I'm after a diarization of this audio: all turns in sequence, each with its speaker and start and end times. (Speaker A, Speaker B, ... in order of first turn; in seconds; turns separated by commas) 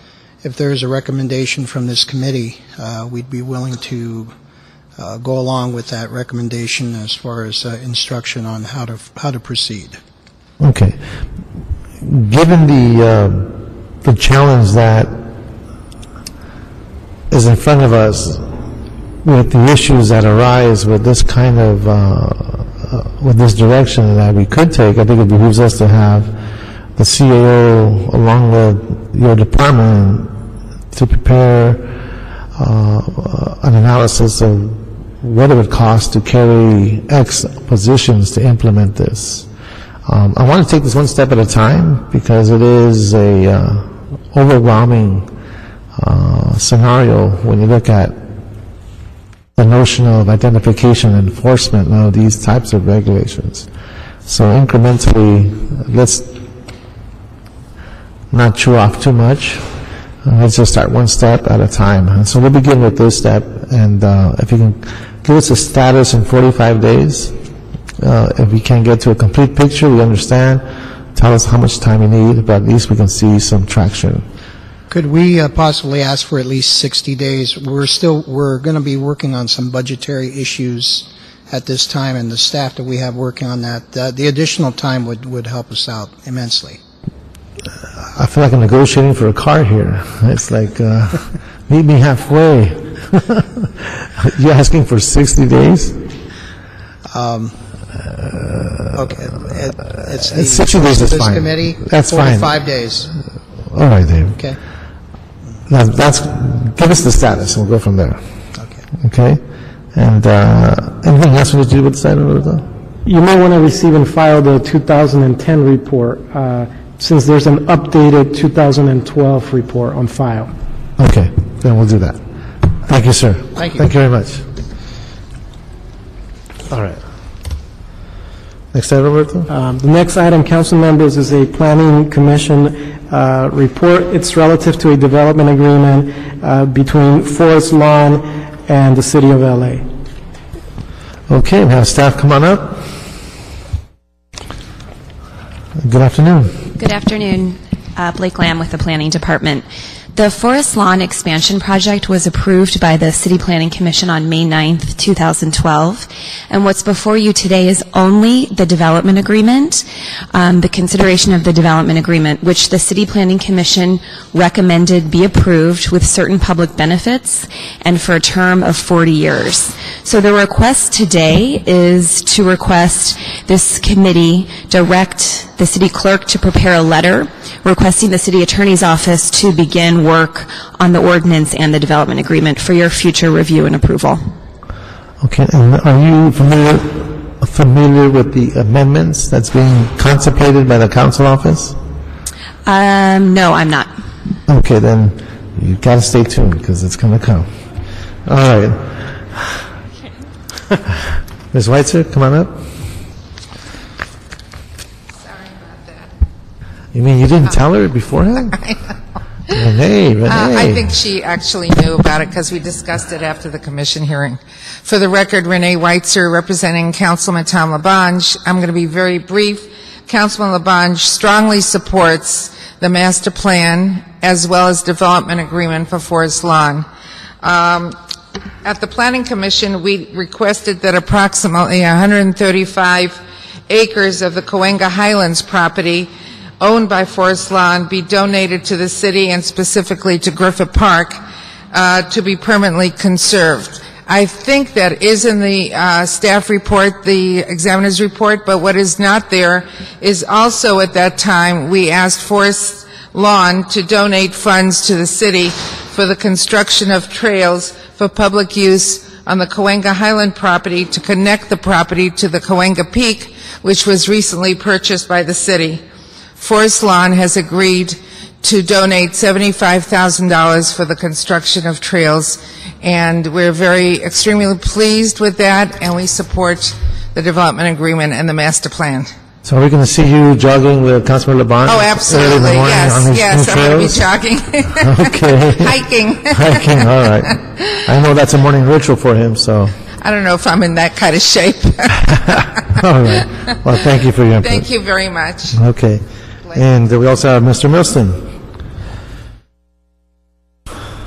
Speaker A: 0.4-4.3, Speaker A: 5.0-10.0, Speaker B: 10.6-11.0, Speaker B: 12.0-15.2, Speaker B: 17.3-18.5, Speaker B: 19.2-26.3, Speaker B: 26.9-30.3, Speaker B: 30.9-32.0, Speaker B: 32.5-39.5, Speaker B: 40.0-45.3, Speaker B: 46.0-48.2, Speaker B: 49.5-53.7, Speaker B: 54.2-56.4, Speaker B: 58.3-67.3, Speaker B: 68.0-74.2, Speaker A: 74.9-86.8, Speaker B: 88.1-96.0, Speaker A: 97.1-97.6, Speaker B: 98.0-99.2, Speaker A: 98.9-103.1, Speaker B: 99.9-102.5, Speaker B: 103.7-104.4, Speaker B: 105.7-108.2, Speaker A: 108.5-108.8, Speaker B: 109.0-109.4, Speaker B: 109.9-112.7, Speaker C: 113.0-120.5, Speaker B: 121.0-122.2, Speaker B: 122.8-124.4, Speaker B: 126.7-127.0, Speaker B: 128.7-129.5, Speaker C: 129.5-139.8, Speaker B: 141.3-142.9, Speaker B: 145.8-146.7, Speaker D: 146.8-184.2, Speaker B: 185.2-191.8, Speaker D: 192.6-193.9, Speaker B: 194.4-197.5, Speaker B: 198.2-199.6, Speaker B: 201.5-202.8, Speaker E: 205.3-206.1, Speaker B: 206.9-208.7, Speaker B: 209.5-210.9, Speaker E: 210.3-226.9, Speaker E: 227.4-228.0, Speaker E: 228.6-241.2, Speaker E: 241.7-265.8, Speaker E: 266.4-279.1, Speaker B: 279.4-284.1, Speaker E: 281.6-287.3, Speaker B: 284.7-289.8, Speaker E: 290.0-292.5, Speaker B: 292.7-294.7, Speaker E: 294.4-295.6, Speaker B: 295.5-298.3